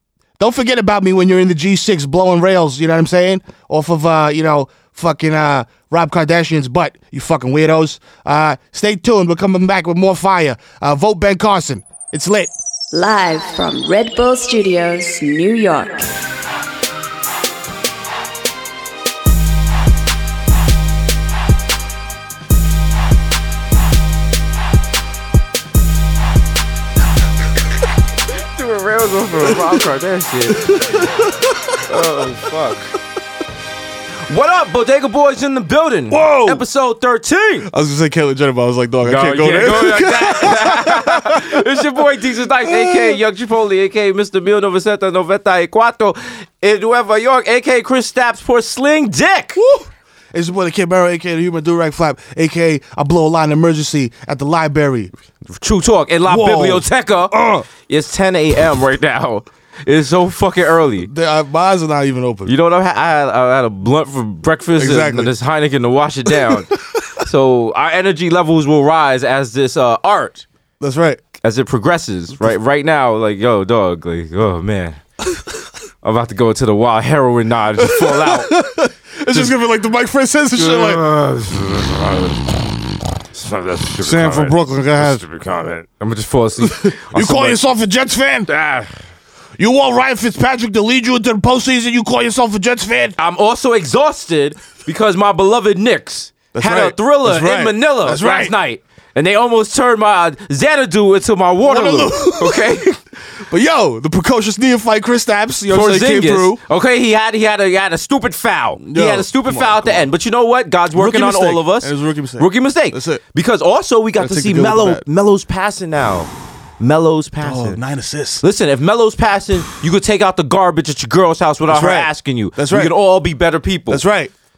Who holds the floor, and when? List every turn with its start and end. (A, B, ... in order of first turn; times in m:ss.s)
0:00.4-0:12.5 A
0:12.9-0:16.1 B
0:28.3-0:30.7 C
0:30.6-0:31.8 A
0:31.8-0:32.9 C
0:34.3-0:37.7 C
0:36.1-0:36.6 A
0:37.7-0:41.6 A
0:39.0-0:49.6 C
0:42.6-0:43.2 A
0:49.6-0:55.1 A
0:55.4-1:01.1 C
0:56.3-0:57.7 A
1:01.0-1:02.5 A
1:02.4-1:10.4 C
1:04.8-1:05.3 A
1:10.8-1:11.2 A
1:11.4-1:15.0 C
1:16.0-1:18.6 C
1:17.8-1:21.0 A
1:20.5-1:27.6 C
1:24.0-1:25.2 A
1:26.6-1:28.5 A
1:28.5-1:28.9 C
1:29.6-1:33.2 A
1:33.2-1:42.9 C
1:36.5-1:38.5 A
1:41.6-1:43.0 A
1:43.5-1:46.6 A
1:45.7-1:57.8 C
1:48.8-1:50.1 A
1:50.9-1:53.2 A
1:54.2-1:55.0 A
1:57.4-1:58.4 A
1:58.4-2:04.0 C
2:01.7-2:02.9 A
2:03.9-2:04.3 A